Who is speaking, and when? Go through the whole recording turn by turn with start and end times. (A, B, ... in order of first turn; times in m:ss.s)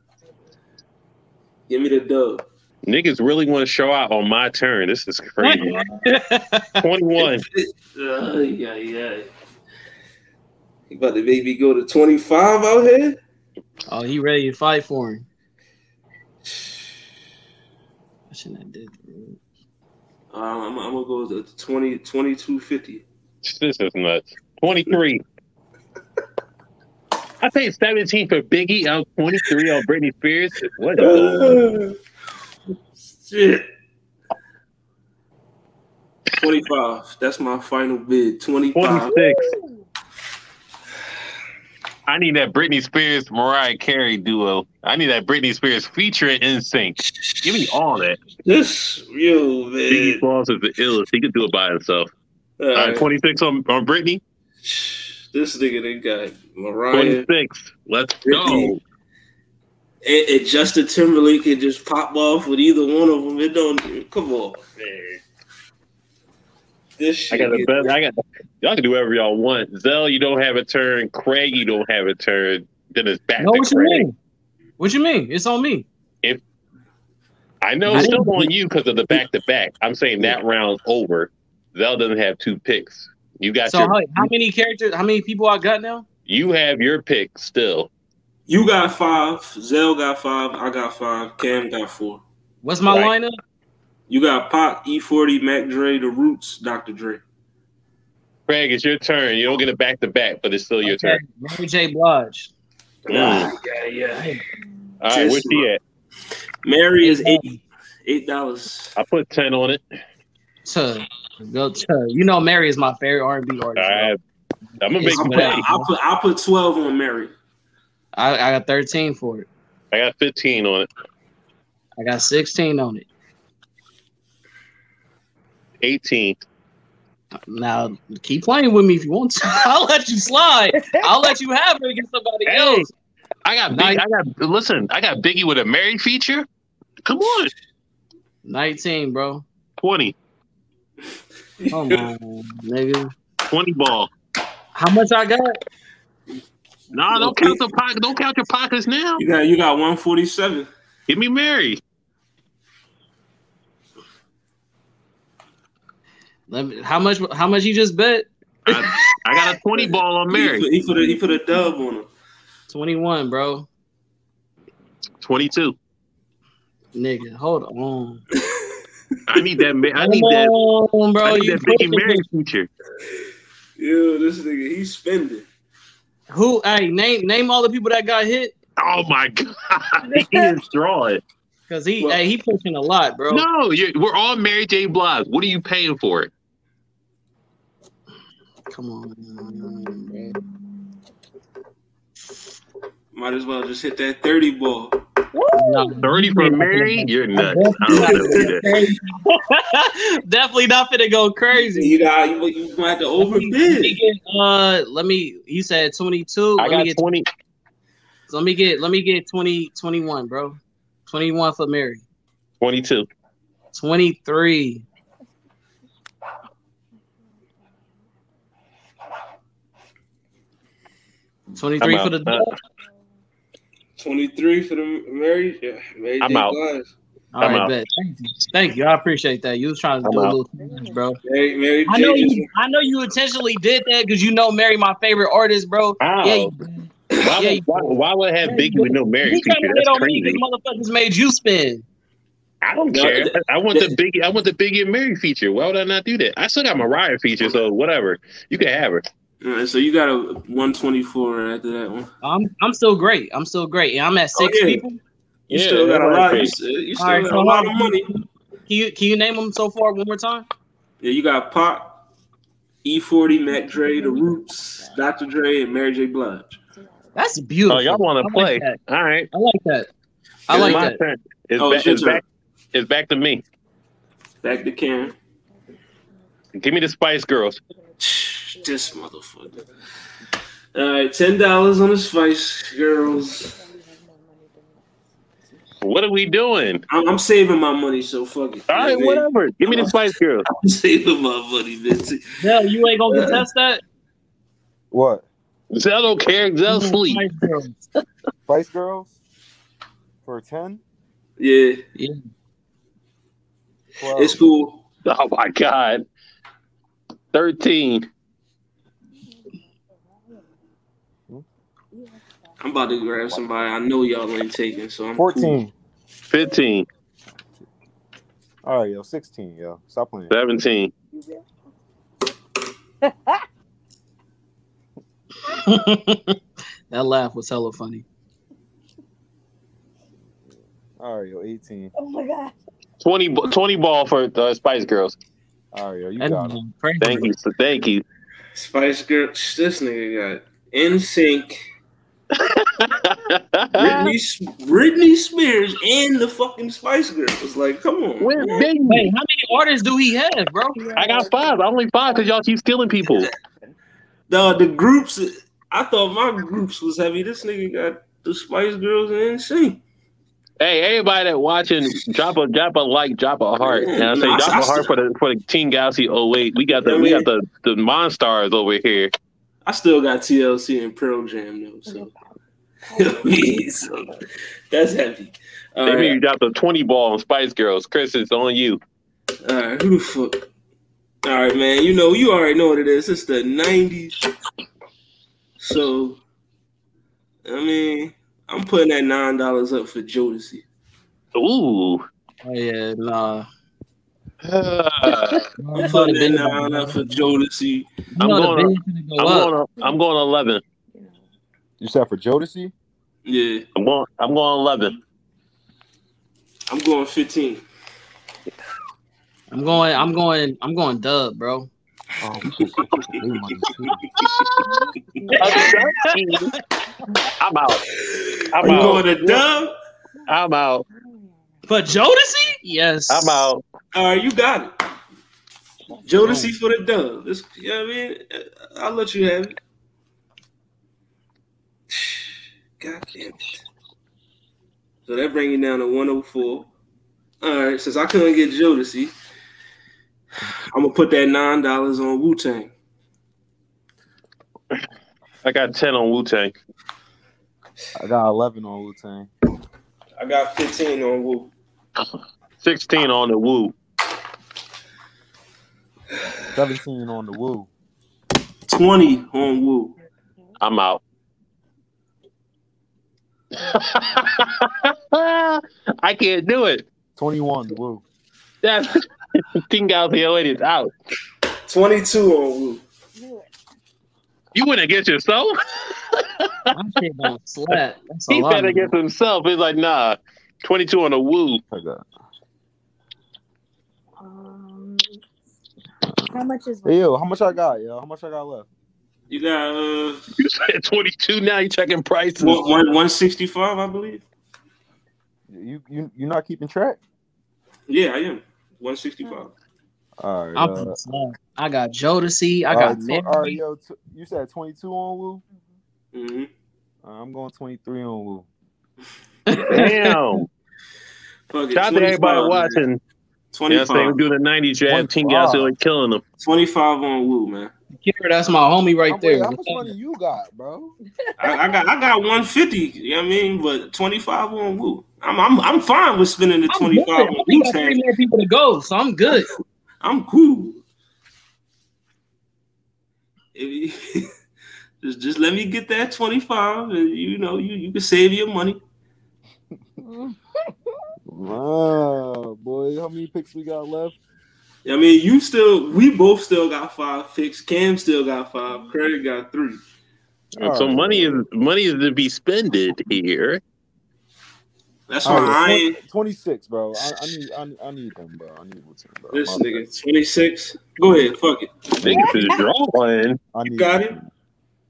0:01.7-0:02.4 A
0:02.8-0:05.8 B
0:05.4-0:06.8 C
0:06.8-0:07.4 B
0:07.2-0:09.3 A
0:10.9-0:13.2 A
0:13.9-0:15.3 C
0:18.3-0:19.4 C
0:20.3-0:23.0 A
0:23.4-0:25.2 B
0:27.4-0:31.6 B
0:31.0-0:31.9 A
0:33.2-0:33.7 A
0:36.3-0:39.1 A
0:38.8-0:39.5 B
0:39.1-0:39.8 D
0:42.1-0:48.2 B
0:47.0-0:47.7 A
0:48.4-0:50.2 A
0:49.9-0:52.1 B
0:52.6-0:53.0 A
0:52.7-0:54.2 B
0:54.6-0:57.2 A
0:56.9-0:58.8 B
0:58.2-0:58.7 A
1:00.0-1:05.2 A
1:07.0-1:07.9 A
1:07.3-1:14.1 B
1:13.4-1:14.2 C
1:14.8-1:15.8 C
1:17.6-1:24.3 B
1:17.8-1:18.5 C
1:23.6-1:26.0 C
1:26.2-1:27.9 B
1:28.5-1:32.2 A
1:32.6-1:33.4 C
1:34.1-1:37.2 A
1:38.5-1:41.2 B
1:40.8-1:42.5 C
1:43.1-1:44.4 A
1:43.1-1:43.5 B
1:44.1-1:44.4 C
1:45.0-1:45.8 B
1:45.1-1:45.7 A
1:46.6-1:49.0 A
1:47.0-1:47.6 C
1:49.0-1:49.8 B
1:50.6-1:54.1 C
1:53.8-1:54.2 B
1:54.8-1:55.7 B
1:55.0-1:55.9 C
1:55.1-1:57.3 A
1:58.1-1:59.5 C
1:59.9-2:00.9 B
2:02.0-2:03.1 C
2:05.8-2:06.4 B
2:07.4-2:12.9 C
2:12.4-2:12.9 B
2:13.4-2:16.5 B
2:13.7-2:14.0 C
2:17.0-2:17.5 B
2:18.4-2:19.4 C
2:19.8-2:20.2 B
2:21.6-2:22.0 A
2:21.7-2:23.1 C
2:23.5-2:24.1 B
2:24.7-2:25.6 C
2:26.9-2:29.2 B
2:27.1-2:27.6 A
2:29.2-2:30.7 A
2:31.1-2:31.8 B
2:36.5-2:38.3 C
2:38.6-2:40.7 B
2:40.3-2:42.1 A
2:42.7-2:43.7 C
2:45.2-2:45.8 B
2:46.9-2:48.2 C
2:49.3-2:50.5 B
2:50.0-2:52.2 C
2:51.2-2:52.7 B
2:53.8-2:55.4 A
2:56.3-2:58.6 C
2:58.8-3:01.2 B
3:00.0-3:00.6 D
3:01.7-3:03.4 C
3:03.3-3:06.3 B
3:08.7-3:10.4 C
3:09.6-3:10.9 D
3:13.1-3:15.0 A
3:15.3-3:16.0 D
3:15.5-3:22.0 C
3:16.0-3:18.6 B
3:17.9-3:18.8 A
3:21.6-3:24.0 A
3:23.2-3:27.0 C
3:26.6-3:27.3 B
3:28.3-3:32.0 C
3:32.6-3:33.1 B
3:33.7-3:34.8 C
3:41.5-3:42.5 C
3:41.8-3:42.5 B
3:44.0-3:46.9 A
3:46.2-3:46.6 B
3:47.3-3:51.2 C
3:47.4-3:47.7 B
3:50.0-3:50.4 B
3:50.6-3:51.1 D
3:51.2-3:52.5 A
3:51.9-4:01.8 C
3:56.0-3:56.6 B
3:57.2-4:00.4 B
4:02.6-4:09.0 B
4:02.9-4:04.0 A
4:09.4-4:12.1 A
4:12.2-4:15.0 C
4:14.3-4:14.8 A
4:15.5-4:18.1 A
4:15.5-4:16.5 B
4:17.0-4:20.5 C
4:21.0-4:22.0 A
4:22.8-4:26.6 A
4:23.5-4:25.0 D
4:26.7-4:27.2 D
4:27.1-4:28.8 C
4:27.7-4:29.3 B
4:29.3-4:29.9 C
4:30.5-4:31.0 C
4:30.5-4:30.9 A
4:30.5-4:33.4 B
4:31.6-4:32.2 A
4:34.4-4:35.1 A
4:36.5-4:37.6 B
4:37.8-4:39.8 D
4:38.0-4:39.6 A
4:40.7-4:43.5 A
4:43.2-4:45.0 D
4:45.8-4:46.8 B
4:46.9-4:49.9 A
4:48.7-4:50.4 B
4:50.6-4:52.4 A
4:52.4-4:53.8 C
4:53.1-4:53.4 A
4:54.9-4:55.2 E
4:55.7-4:57.2 B
4:56.6-4:57.8 C
4:58.5-4:59.1 E
5:00.2-5:00.8 E
5:01.4-5:01.8 A
5:04.0-5:04.4 E
5:04.1-5:04.8 A
5:05.0-5:06.0 B
5:07.3-5:08.1 B
5:09.2-5:10.5 D
5:11.9-5:13.4 D
5:12.6-5:15.6 A
5:15.1-5:15.7 E
5:16.3-5:16.9 B
5:18.6-5:20.4 E
5:20.3-5:20.9 B
5:21.1-5:21.6 D
5:23.0-5:23.4 D
5:25.4-5:26.4 C
5:26.9-5:28.0 C
5:31.0-5:31.9 E
5:31.9-5:32.5 D
5:33.0-5:35.2 B
5:35.7-5:36.6 E
5:36.2-5:37.3 C
5:37.0-5:38.0 B
5:38.5-5:41.6 A
5:42.4-5:44.1 B
5:43.7-5:48.6 A
5:48.2-5:49.1 B
5:48.9-5:50.8 C
5:50.7-5:52.3 D
5:51.0-5:53.3 B
5:53.0-5:53.3 A
5:54.3-5:59.8 A
6:00.6-6:09.1 B
6:03.6-6:04.9 A
6:06.8-6:07.3 A
6:09.6-6:12.1 A
6:11.9-6:12.2 D
6:12.9-6:13.9 D
6:12.9-6:16.2 A
6:15.8-6:18.8 B
6:19.4-6:20.4 A
6:21.2-6:24.2 A
6:25.6-6:26.2 A
6:27.4-6:30.6 A
6:31.3-6:32.0 B
6:32.4-6:33.5 C
6:34.4-6:35.5 B
6:35.6-6:37.0 C
6:35.8-6:37.9 A
6:38.2-6:39.5 C
6:38.2-6:40.6 B
6:40.9-6:41.2 D
6:41.8-6:42.7 E
6:43.2-6:43.6 A
6:43.7-6:45.0 B
6:46.7-6:47.6 A
6:49.5-6:51.7 C
6:52.2-6:54.0 E
6:52.6-6:53.1 A
6:54.6-6:55.8 D
6:55.3-6:56.1 C
6:55.4-6:56.5 B
6:55.4-6:55.7 A
6:57.0-6:57.3 D
6:57.4-6:57.9 B
6:58.0-6:59.7 A
6:58.5-6:59.4 B
6:58.6-6:59.0 D
7:00.1-7:01.6 D
7:00.3-7:00.8 B
7:01.7-7:03.5 C
7:03.1-7:03.6 B
7:03.9-7:04.7 A
7:05.9-7:06.4 D
7:06.0-7:09.6 A
7:06.2-7:06.5 C
7:11.9-7:13.5 A
7:15.0-7:16.7 A
7:17.4-7:19.1 A
7:20.7-7:22.7 A
7:25.4-7:26.5 B
7:27.9-7:29.3 E
7:30.2-7:31.5 A
7:32.6-7:33.8 B
7:36.5-7:37.7 E
7:38.7-7:39.9 A
7:40.6-7:41.0 B
7:43.6-7:46.8 B
7:47.2-7:48.0 E
7:48.6-7:50.9 B
7:51.7-7:52.8 A
7:53.2-7:53.5 D
7:54.5-7:56.7 B
7:56.7-7:58.9 C
7:58.3-8:01.6 B
8:01.7-8:02.0 E
8:04.2-8:05.2 D
8:06.2-8:07.7 D
8:06.8-8:08.7 E
8:09.3-8:10.3 A
8:10.4-8:12.6 B
8:12.4-8:14.2 A
8:15.5-8:17.0 E
8:17.9-8:19.5 A
8:20.2-8:20.9 E
8:20.6-8:23.6 C
8:22.7-8:25.4 E
8:26.1-8:26.5 A
8:27.0-8:28.5 E
8:29.5-8:30.4 C
8:29.7-8:30.5 B
8:31.5-8:32.8 A
8:31.7-8:33.0 B
8:33.5-8:34.2 A
8:33.7-8:36.2 B
8:34.9-8:35.7 E
8:36.4-8:37.7 A
8:38.0-8:39.9 C
8:39.1-8:40.9 E
8:41.4-8:41.7 D
8:41.4-8:48.0 A
8:46.7-8:49.5 C
8:50.0-8:50.8 A
8:53.5-8:54.3 A
8:55.0-8:58.8 A
9:00.0-9:00.3 D
9:01.3-9:04.2 E
9:04.8-9:09.8 A
9:10.5-9:11.4 E
9:10.6-9:13.6 B
9:15.1-9:16.0 A
9:15.2-9:19.8 E
9:19.3-9:22.0 A
9:22.0-9:23.4 B
9:22.0-9:22.3 E
9:22.1-9:22.6 D
9:23.5-9:24.3 E
9:23.6-9:24.2 A